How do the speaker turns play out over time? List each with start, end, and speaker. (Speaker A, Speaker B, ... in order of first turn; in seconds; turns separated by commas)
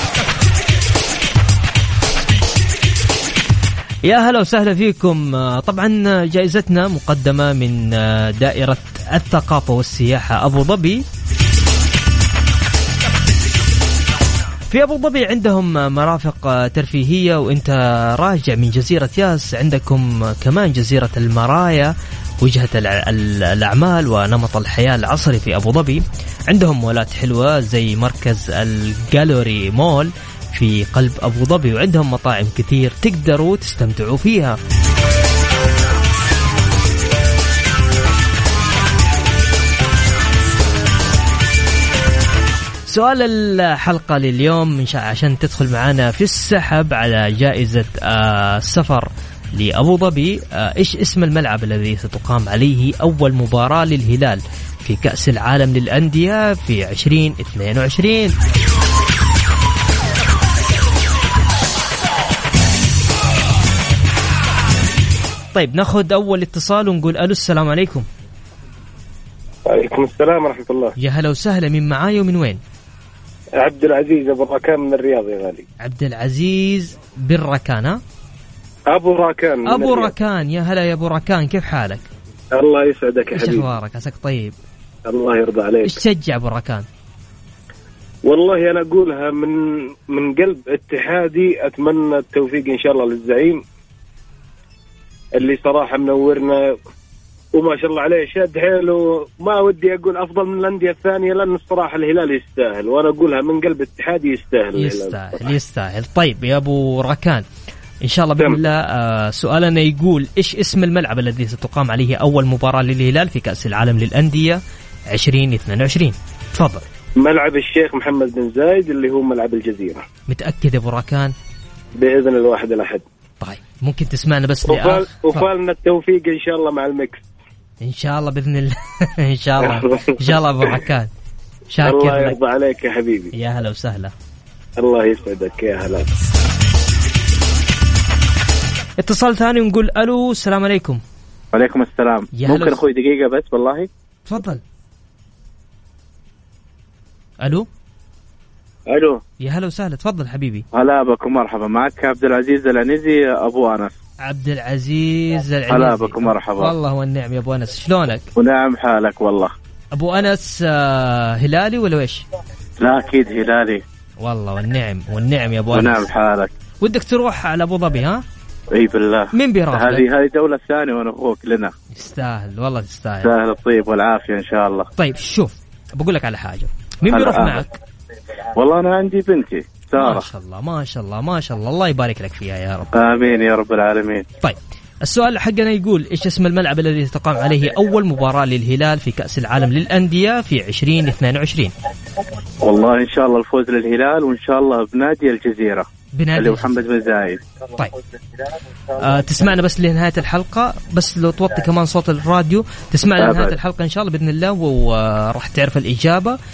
Speaker A: 4.0-11.0, Speaker A: 14.7-21.9, Speaker A: 22.4-34.6, Speaker A: 42.9-58.3, Speaker A: 65.5-68.0, Speaker B: 69.6-70.9, Speaker A: 71.0-72.6, Speaker B: 73.6-75.6, Speaker A: 75.8-78.0, Speaker B: 78.9-80.1, Speaker A: 79.6-82.0, Speaker B: 82.5-83.7, Speaker A: 83.3-84.5, Speaker B: 85.0-86.0, Speaker A: 85.8-86.9, Speaker B: 88.2-93.6, Speaker B: 95.4-96.8, Speaker B: 97.5-105.5, Speaker A: 104.7-107.4, Speaker A: 108.0-114.6, Speaker A: 115.1-116.8, Speaker B: 117.2-120.0, Speaker A: 120.3-121.3, Speaker B: 121.9-123.0, Speaker A: 123.4-125.5, Speaker B: 124.7-127.2, Speaker A: 127.8-131.1, Speaker B: 129.6-130.1, Speaker A: 131.7-132.4, Speaker B: 131.8-133.3, Speaker A: 133.3-134.1, Speaker B: 134.8-136.1, Speaker A: 139.0-141.0, Speaker C: 141.5-143.9, Speaker A: 142.3-142.8, Speaker A: 144.3-144.6, Speaker A: 147.4-147.7, Speaker C: 148.9-149.2, Speaker A: 149.4-150.6, Speaker C: 150.7-153.9, Speaker A: 154.2-158.3, Speaker C: 155.7-156.7, Speaker C: 158.4-159.5, Speaker A: 159.9-162.2, Speaker C: 162.8-163.8, Speaker A: 164.2-166.1, Speaker C: 165.7-166.5, Speaker A: 166.8-168.2, Speaker C: 168.7-171.7, Speaker A: 169.3-170.1, Speaker A: 171.9-173.3, Speaker C: 173.2-174.9, Speaker A: 175.0-177.8, Speaker C: 177.1-177.6, Speaker C: 178.6-180.2, Speaker A: 179.9-182.9, Speaker C: 182.9-184.2, Speaker A: 184.4-191.7, Speaker C: 192.6-195.8, Speaker A: 196.2-196.8, Speaker C: 196.3-197.4, Speaker A: 199.0-206.4, Speaker C: 203.2-203.5